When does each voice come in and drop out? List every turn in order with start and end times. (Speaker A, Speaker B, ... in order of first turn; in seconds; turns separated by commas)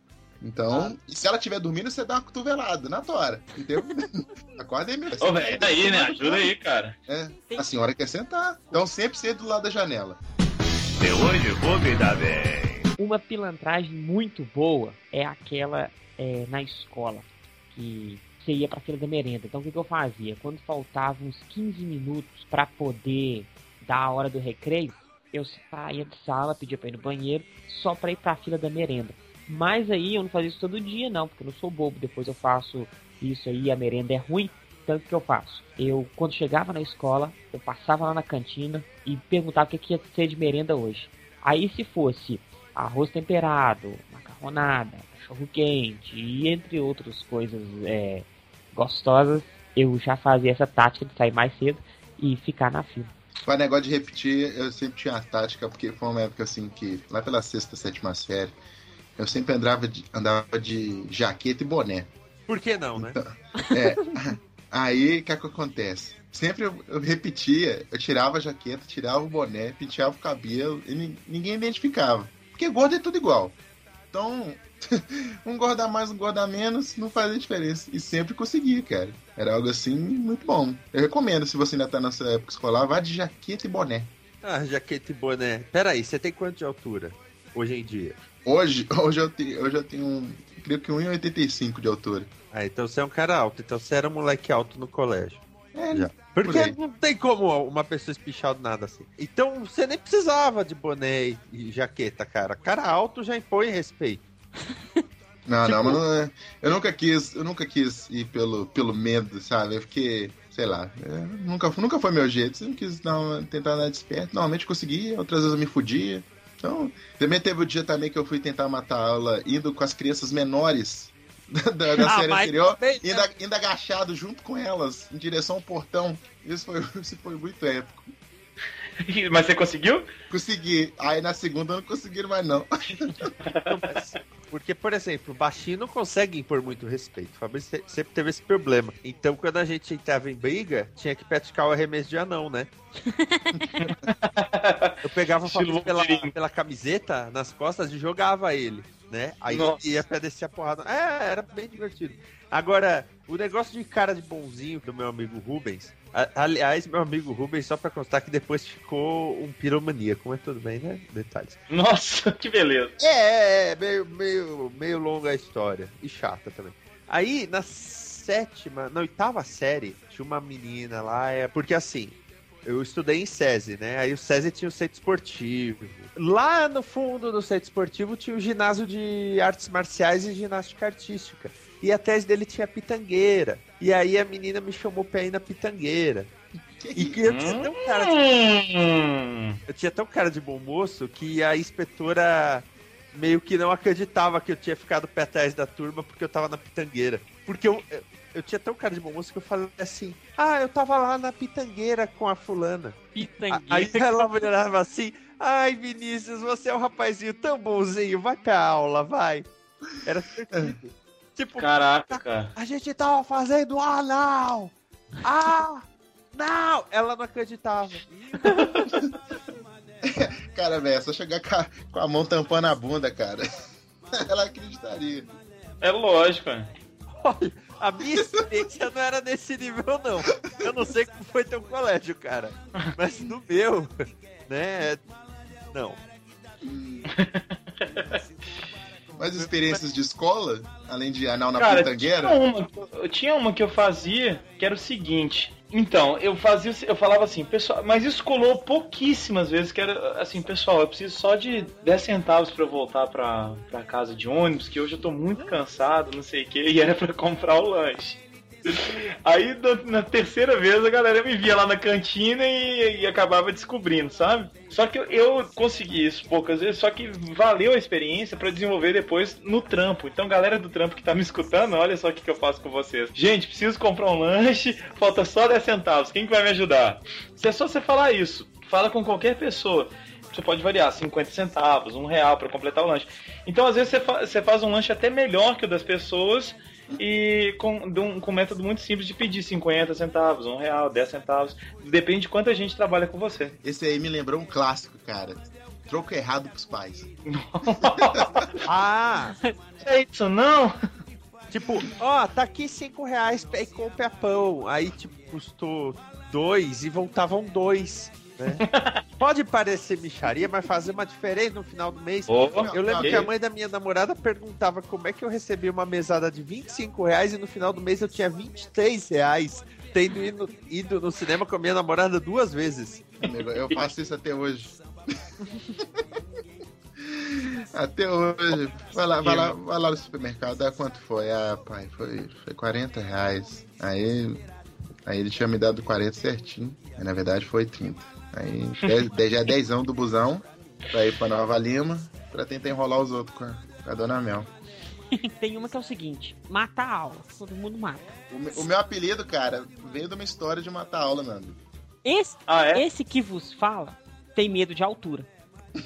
Speaker A: 0.4-6.5, Speaker B: 5.2-7.0, Speaker A: 7.1-10.2, Speaker B: 11.0-12.3, Speaker C: 13.0-53.1, Speaker A: 53.5-58.5, Speaker A: 59.2-62.1, Speaker D: 62.5-63.2, Speaker A: 63.0-73.6, Speaker A: 74.1-84.1, Speaker D: 84.4-88.2, Speaker A: 88.5-92.3, Speaker D: 92.5-104.2, Speaker A: 95.7-96.8, Speaker A: 105.5-128.1, Speaker C: 122.1-123.2, Speaker B: 129.0-130.1, Speaker A: 130.3-133.3, Speaker B: 133.5-134.0, Speaker D: 133.7-142.7, Speaker C: 143.1-143.6, Speaker B: 143.7-146.3, Speaker D: 145.0-161.6, Speaker B: 149.5-150.0, Speaker B: 161.7-162.9, Speaker D: 163.0-186.3, Speaker A: 186.8-187.5, Speaker D: 187.0-188.2, Speaker B: 187.2-189.6, Speaker D: 189.7-209.5, Speaker C: 203.2-204.4, Speaker D: 210.0-218.9, Speaker B: 211.6-212.5, Speaker A: 220.1-223.4, Speaker A: 224.1-225.3, Speaker B: 225.8-226.7, Speaker D: 227.1-233.9, Speaker A: 230.6-230.8, Speaker D: 234.5-235.0, Speaker D: 235.7-236.0, Speaker A: 236.6-237.1, Speaker B: 237.1-238.0, Speaker A: 239.2-242.4, Speaker B: 241.6-293.6, Speaker A: 293.6-297.1, Speaker B: 297.3-298.6, Speaker D: 298.7-299.4, Speaker B: 299.8-300.7, Speaker D: 301.5-308.6, Speaker B: 308.7-309.0, Speaker D: 309.2-323.1, Speaker B: 312.3-313.3, Speaker A: 312.6-313.3, Speaker A: 323.2-325.2, Speaker A: 327.0-334.4, Speaker B: 329.2-329.6, Speaker A: 335.1-344.5, Speaker C: 345.1-348.7, Speaker A: 348.3-351.6, Speaker C: 352.1-355.3, Speaker B: 352.5-352.8